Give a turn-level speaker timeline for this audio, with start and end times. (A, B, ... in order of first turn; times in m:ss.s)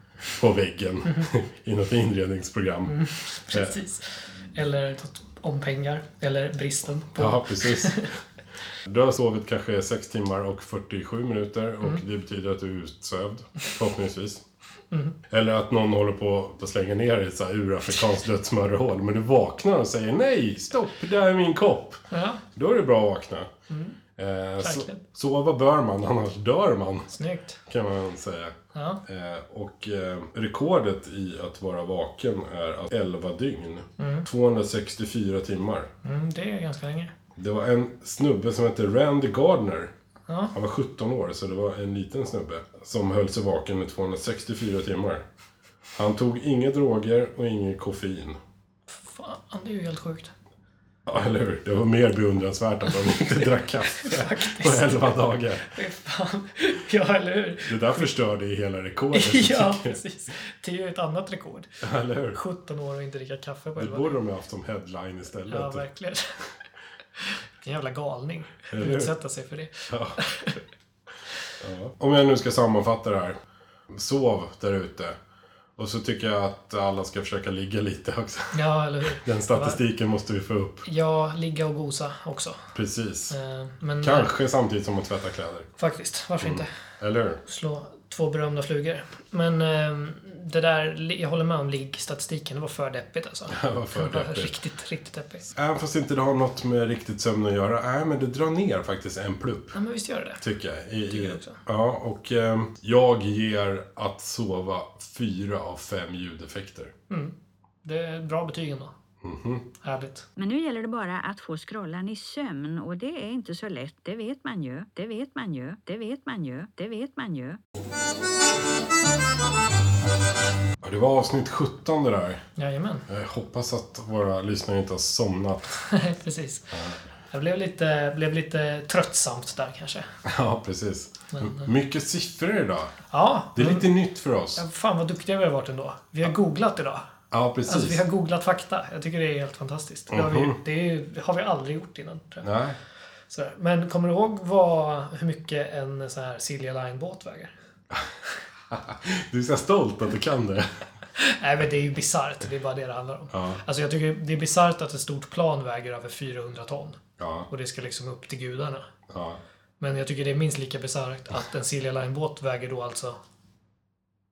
0:00.3-0:03.8 A
0:02.9-0:08.1 B
0:07.1-0:08.1 A
0:08.8-0:14.4 A
0:14.9-0:15.2 B
0:15.3-0:23.5 A
0:22.1-0:22.4 B
0:23.7-0:24.0 B
0:24.2-0:27.1 A
0:24.6-0:25.0 B
0:27.1-0:27.6 B
0:27.7-0:35.9 A
0:28.7-0:29.0 B
0:34.0-0:34.3 B
0:36.0-0:37.1 B
0:37.4-0:39.9 A
0:40.3-0:40.6 B
0:40.5-0:45.2 A
0:46.0-0:48.4 A
0:48.9-0:50.3 B
0:51.0-0:55.7 A
0:53.9-0:55.0 B
0:55.6-0:58.1 B
0:57.7-1:00.0 A
0:59.1-1:01.7 B
1:01.8-1:02.4 A
1:02.3-1:04.2 B
1:03.8-1:05.8 A
1:05.5-1:06.3 B
1:07.2-1:10.6 B
1:08.7-1:09.1 A
1:09.9-1:10.2 A
1:11.6-1:13.4 A
1:13.9-1:15.2 A
1:15.8-1:20.9 A
1:18.5-1:19.8 B
1:20.9-1:22.7 B
1:22.7-1:23.4 A
1:23.3-1:24.3 B
1:24.0-1:25.7 A
1:25.8-1:26.7 B
1:26.4-1:27.4 A
1:27.4-1:35.5 B
1:33.5-1:34.6 A
1:35.5-1:39.8 A
1:39.7-1:40.4 B
1:40.4-1:46.9 A
1:41.1-1:41.6 B
1:47.1-1:48.9 B
1:49.2-1:49.7 A
1:49.8-1:50.3 B
1:50.4-1:57.6 C
2:00.8-2:02.4 A
2:02.6-2:03.0 B
2:03.1-2:05.7 A
2:05.8-2:06.7 B
2:06.7-2:07.0 A
2:07.3-2:10.1 B
2:10.2-2:12.9 A
2:11.3-2:11.7 B
2:13.1-2:13.9 B
2:13.6-2:14.6 A
2:14.6-2:17.0 B
2:17.3-2:18.0 A
2:17.7-2:22.5 B
2:20.1-2:20.6 A
2:22.4-2:22.8 A
2:23.3-2:27.5 B
2:28.7-2:30.7 A
2:31.2-2:38.9 B
2:33.3-2:33.6 A
2:37.2-2:37.5 A
2:39.1-2:39.4 A
2:39.8-2:43.2 B